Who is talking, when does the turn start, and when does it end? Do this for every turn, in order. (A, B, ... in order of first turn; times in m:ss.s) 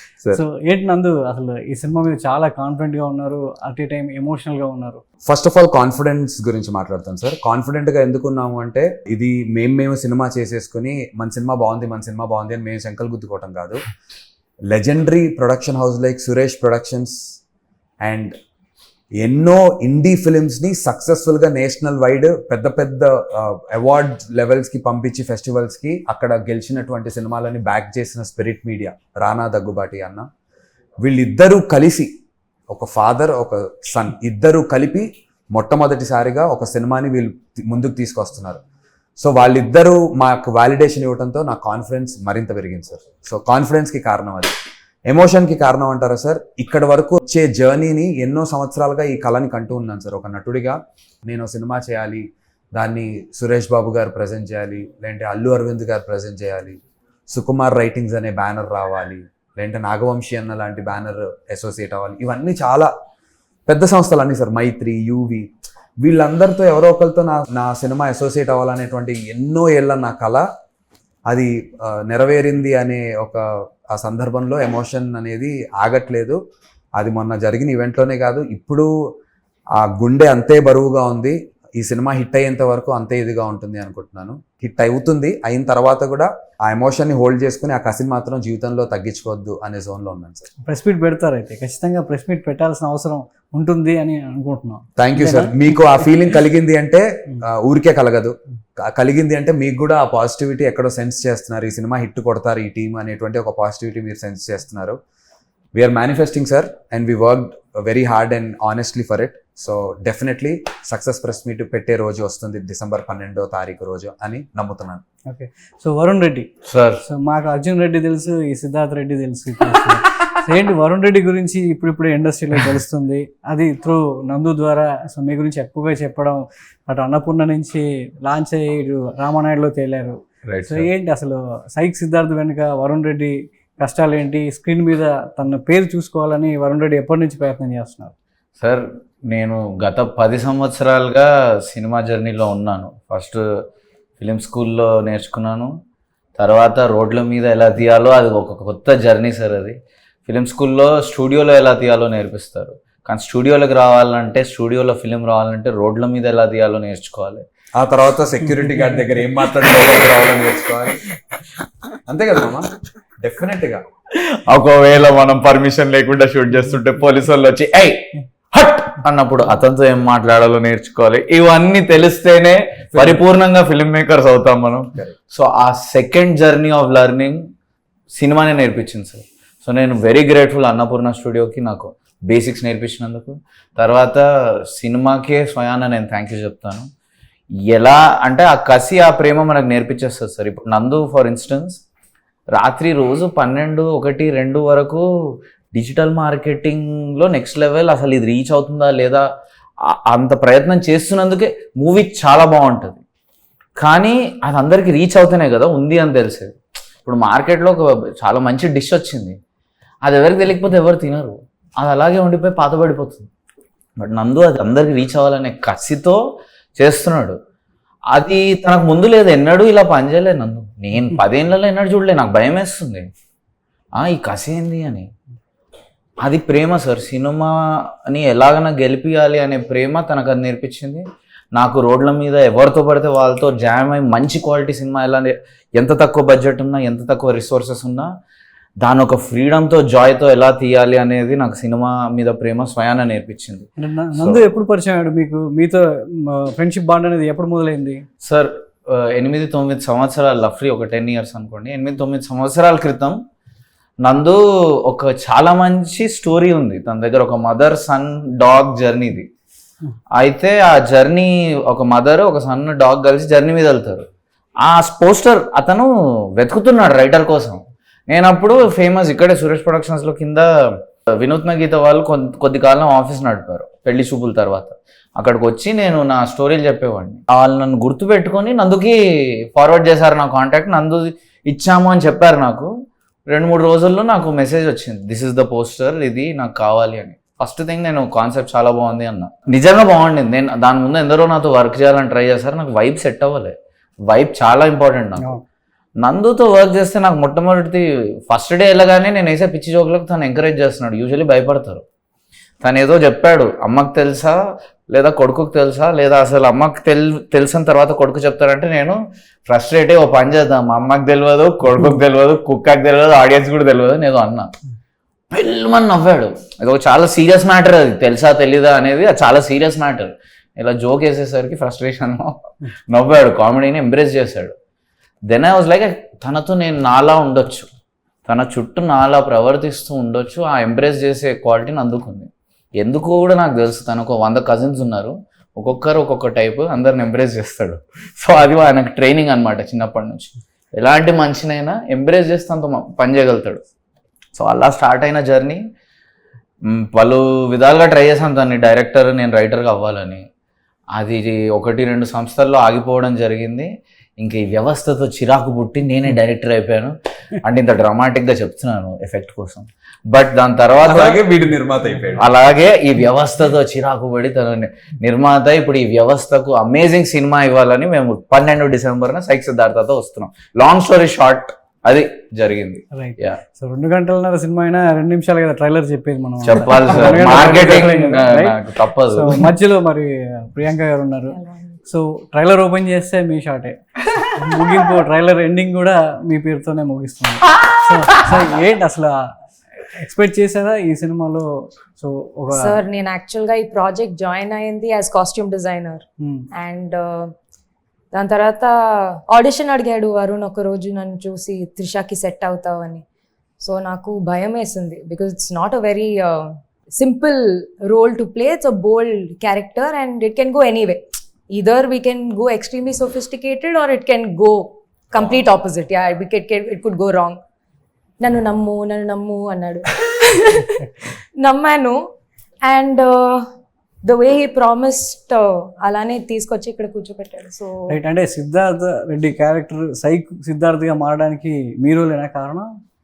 0:00.3-0:05.0 A
0:05.3-0:13.8 B
0:14.7-0:17.3 B
0:18.0-0:18.3 B
0:19.2-0:30.3 B
0:31.0-0:32.1 B
0:32.7-0:38.6 B
0:39.2-0:44.5 B
0:45.1-0:56.8 B
0:57.3-1:02.9 B
1:03.7-1:05.5 B
1:06.0-1:10.4 B
1:11.3-1:16.4 B
1:17.0-1:18.9 B
1:19.8-1:30.5 B
1:30.7-1:35.5 A
1:35.0-1:45.0 B
1:45.8-1:55.0 B
1:55.3-1:56.5 A
1:56.7-1:57.0 C
1:57.0-2:18.1 A
2:10.5-2:10.9 C
2:18.6-2:23.4 C
2:24.2-2:25.7 C
2:26.4-2:29.8 C
2:30.3-2:37.4 C
2:37.8-2:41.0 B
2:42.1-2:43.8 B
2:44.2-2:57.4 C
2:52.9-2:53.2 B
2:58.1-3:06.9 C
3:07.7-3:11.8 C
3:12.6-3:15.1 C
3:15.7-3:19.2 C
3:19.9-3:23.0 C
3:23.8-3:29.4 C
3:30.0-3:33.3 C
3:34.0-3:36.2 C
3:36.8-3:37.4 C
3:38.1-3:43.1 C
3:44.0-3:45.1 C
3:46.2-3:58.1 C
3:58.8-4:04.4 C
4:03.8-4:08.0 A
4:08.2-4:13.2 C
4:14.0-4:19.3 C
4:20.2-4:24.1 C
4:24.6-4:30.5 C
4:31.1-4:42.7 C
4:43.3-4:55.4 C
4:56.0-5:01.8 C
5:02.6-5:14.5 C
5:15.3-5:24.5 C
5:25.3-5:27.7 C
5:28.3-5:43.6 C
5:44.4-5:45.6 C
5:46.7-5:50.3 C
5:51.0-5:53.7 C
5:54.2-6:01.2 C
6:00.8-6:02.3 B
6:02.2-6:13.4 C
6:12.9-6:23.8 A
6:16.4-6:19.4 C
6:21.3-6:21.8 D
6:24.3-6:29.2 A
6:29.9-6:32.8 A
6:32.5-6:37.3 D
6:38.1-6:43.0 D
6:43.6-6:57.4 D
6:58.2-7:02.0 D
7:02.6-7:03.4 D
7:04.0-7:07.8 D
7:07.9-7:12.7 A